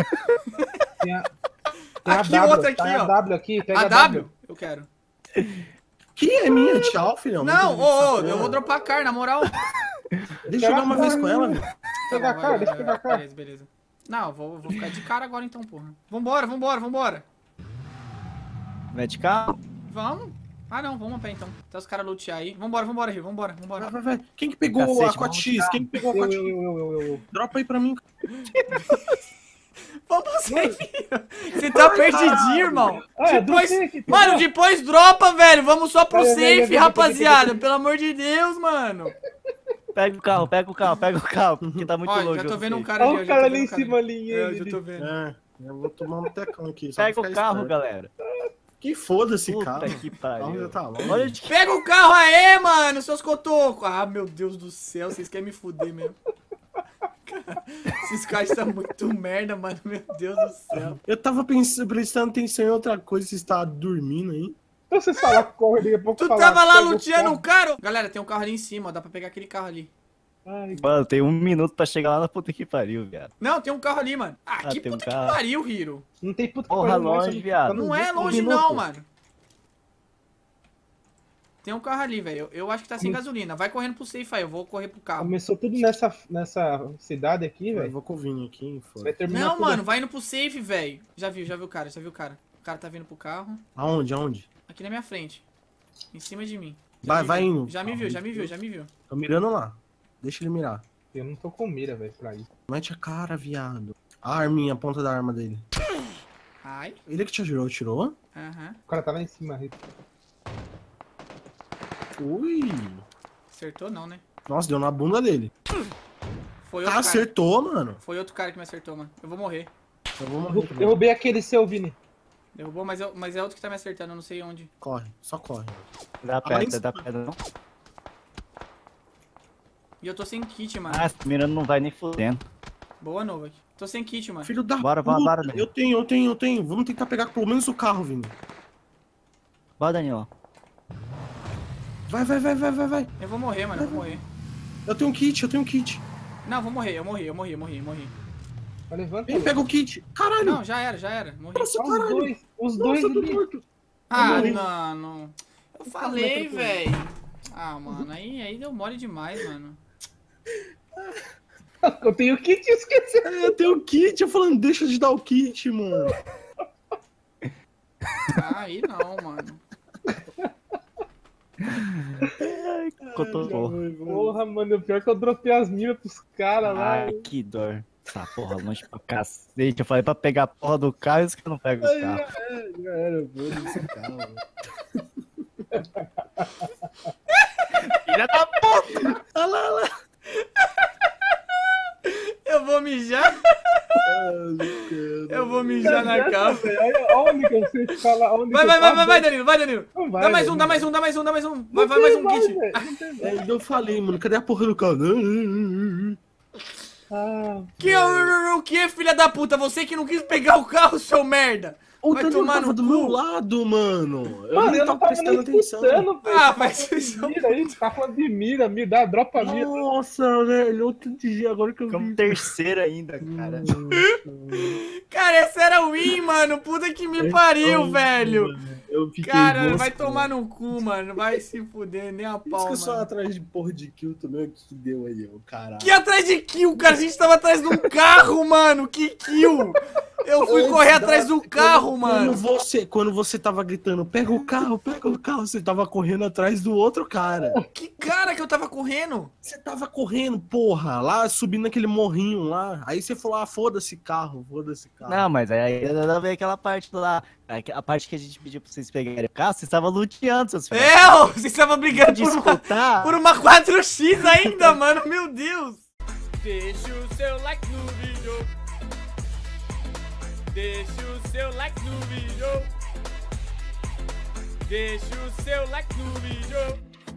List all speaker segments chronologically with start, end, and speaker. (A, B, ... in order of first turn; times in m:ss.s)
0:01.0-0:01.3 A
0:02.0-0:03.1 B
0:02.0-0:04.3 A
0:03.7-0:04.9 B
0:06.2-0:08.6 C
0:07.4-0:09.5 B
0:10.5-0:11.7 C
0:10.5-0:13.2 A
0:12.1-0:17.3 B
0:18.9-0:19.6 D
0:19.9-0:23.9 B
0:23.8-0:26.5 C
0:24.7-0:25.8 D
0:25.9-0:27.2 A
0:27.3-0:28.0 C
0:28.3-0:29.2 B
0:30.1-0:39.1 B
0:30.5-0:30.8 A
0:31.7-0:32.9 C
0:33.0-0:34.4 A
0:36.1-0:37.6 A
0:40.0-0:42.9 D
0:41.6-0:41.9 C
0:42.1-0:45.1 B
0:43.0-0:44.8 A
0:45.0-0:47.7 C
0:47.0-0:48.1 D
0:48.8-0:51.4 C
0:49.5-0:51.5 D
0:51.5-0:56.2 B
0:57.3-1:01.0 B
1:00.8-1:04.6 C
1:04.9-1:07.4 A
1:06.2-1:09.9 B
1:10.5-1:10.9 A
1:10.8-1:13.3 D
1:13.4-1:16.0 B
1:14.6-1:15.4 D
1:16.2-1:18.4 A
1:16.7-1:17.8 D
1:17.7-1:19.0 B
1:18.3-1:18.8 C
1:21.6-1:25.4 B
1:25.2-1:27.9 A
1:27.7-1:29.2 C
1:29.0-1:29.9 A
1:29.3-1:33.6 B
1:33.8-1:34.5 C
1:34.7-1:35.5 B
1:36.1-1:38.9 B
1:37.0-1:38.6 C
1:39.1-1:40.8 C
1:41.1-1:42.5 A
1:42.7-1:45.6 C
1:46.6-1:47.0 B
1:47.1-1:48.2 C
1:48.4-1:48.8 B
1:48.9-1:49.8 A
1:52.2-1:53.0 C
1:53.5-1:54.2 B
1:54.5-1:55.5 C
1:56.6-1:57.3 B
1:56.8-1:58.0 C
1:58.0-1:59.7 B
2:00.2-2:01.0 C
2:00.5-2:02.0 A
2:02.6-2:04.7 B
2:04.8-2:05.9 C
2:06.2-2:07.4 D
2:06.4-2:07.0 C
2:10.0-2:11.1 B
2:10.9-2:12.4 D
2:13.0-2:14.5 B
2:14.4-2:18.4 C
2:14.8-2:15.7 D
2:19.8-2:20.3 D
2:22.1-2:23.1 C
2:23.2-2:24.2 B
2:23.7-2:24.2 C
2:24.9-2:26.0 C
2:26.4-2:28.1 B
2:28.9-2:29.6 A
2:29.3-2:30.6 C
2:30.4-2:31.7 B
2:31.6-2:33.6 C
2:31.7-2:33.4 A
2:34.1-2:39.8 B
2:34.2-2:34.7 C
2:34.2-2:34.6 A
2:36.0-2:36.8 A
2:41.8-2:43.6 A
2:43.2-2:46.1 C
2:48.3-2:49.6 B
2:50.1-2:50.5 A
2:51.7-2:53.8 D
2:53.0-2:54.4 C
2:53.5-2:57.3 A
2:56.7-3:02.2 D
3:01.8-3:04.4 C
3:05.8-3:06.7 A
3:08.0-3:09.0 D
3:09.1-3:09.9 C
3:10.4-3:10.9 B
3:12.0-3:13.8 B
3:14.0-3:16.2 C
3:15.3-3:16.8 B
3:15.8-3:19.3 A
3:18.5-3:22.9 B
3:20.0-3:20.9 A
3:21.7-3:24.0 A
3:23.2-3:26.2 C
3:27.1-3:28.3 A
3:27.8-3:33.2 B
3:32.0-3:36.1 C
3:34.5-3:39.9 A
3:36.2-3:37.7 B
3:39.4-3:42.5 C
3:41.9-3:43.7 D
3:43.2-3:44.8 C
3:45.1-3:48.5 B
3:47.2-3:50.3 C
3:49.2-3:53.1 B
3:52.5-3:56.0 C
3:55.8-4:02.4 B
4:00.5-4:07.6 C
4:07.7-4:09.3 B
4:09.4-4:15.3 C
4:15.1-4:21.2 D
4:20.7-4:25.9 B
4:21.9-4:23.2 D
4:24.4-4:24.7 C
4:26.4-4:28.5 B
4:30.5-4:32.7 B
4:34.6-4:36.8 B